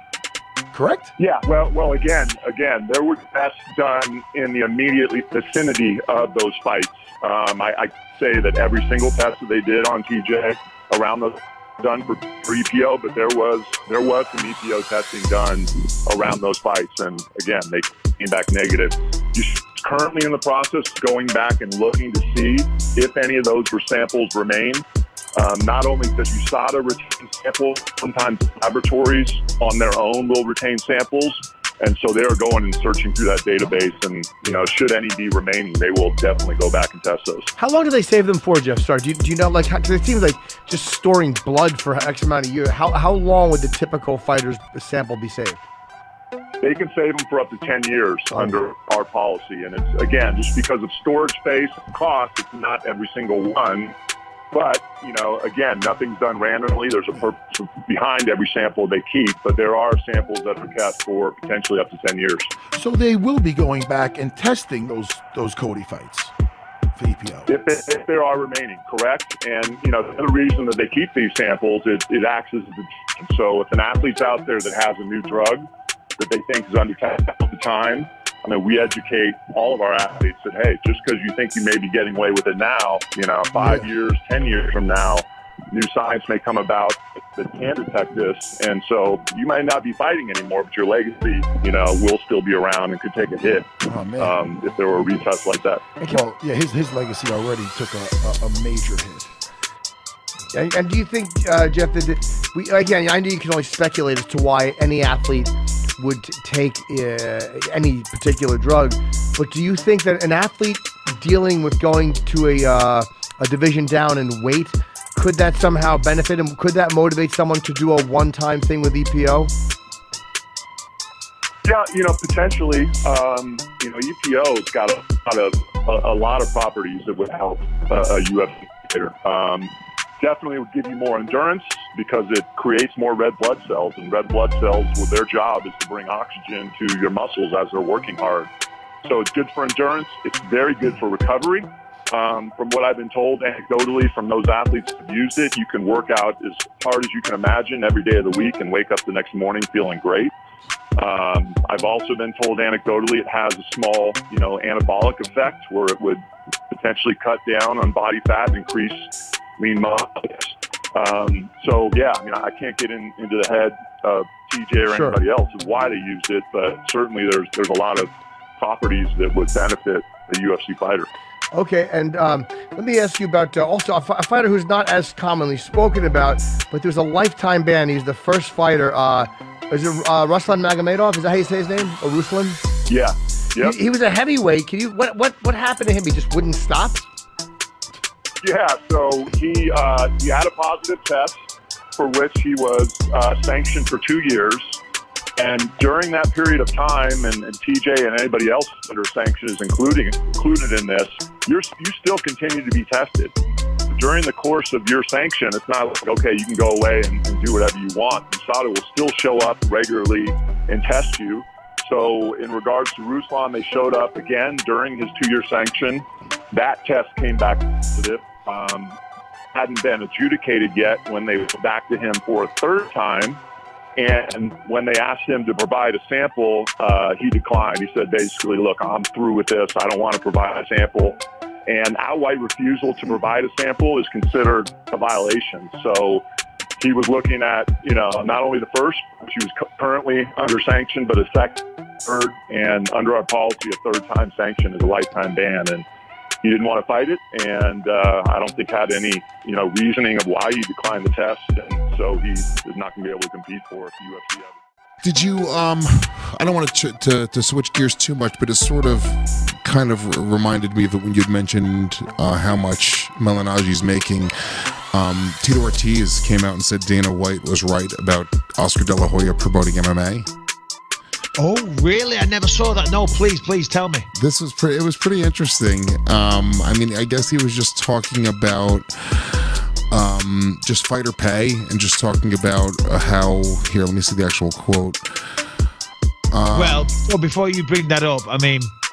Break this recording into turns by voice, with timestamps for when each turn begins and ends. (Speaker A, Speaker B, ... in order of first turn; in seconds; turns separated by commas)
Speaker A: 0.7-1.1, Speaker B: 1.2-24.9, Speaker B: 25.4-37.5, Speaker C: 37.6-45.7, Speaker B: 46.6-54.0, Speaker B: 54.5-62.5, Speaker A: 62.8-66.3, Speaker A: 67.0-67.5, Speaker B: 67.5-95.8, Speaker A: 93.8-94.4, Speaker A: 96.0-99.3, Speaker C: 100.5-119.5, Speaker B: 121.7-138.5, Speaker B: 139.0-150.3, Speaker B: 151.0-171.1, Speaker C: 164.9-165.2, Speaker C: 171.5-182.6, Speaker B: 182.9-183.8, Speaker C: 183.6-187.1, Speaker B: 188.4-191.4, Speaker B: 192.0-194.8, Speaker B: 195.4-203.3, Speaker B: 203.9-219.0, Speaker B: 219.5-223.4, Speaker B: 224.0-236.3, Speaker B: 236.8-245.9, Speaker B: 246.4-254.6, Speaker D: 255.0-264.3, Speaker D: 264.9-270.3, Speaker E: 271.4-274.1, Speaker D: 274.1-285.1, Speaker D: 286.3-286.9, Speaker E: 286.5-288.7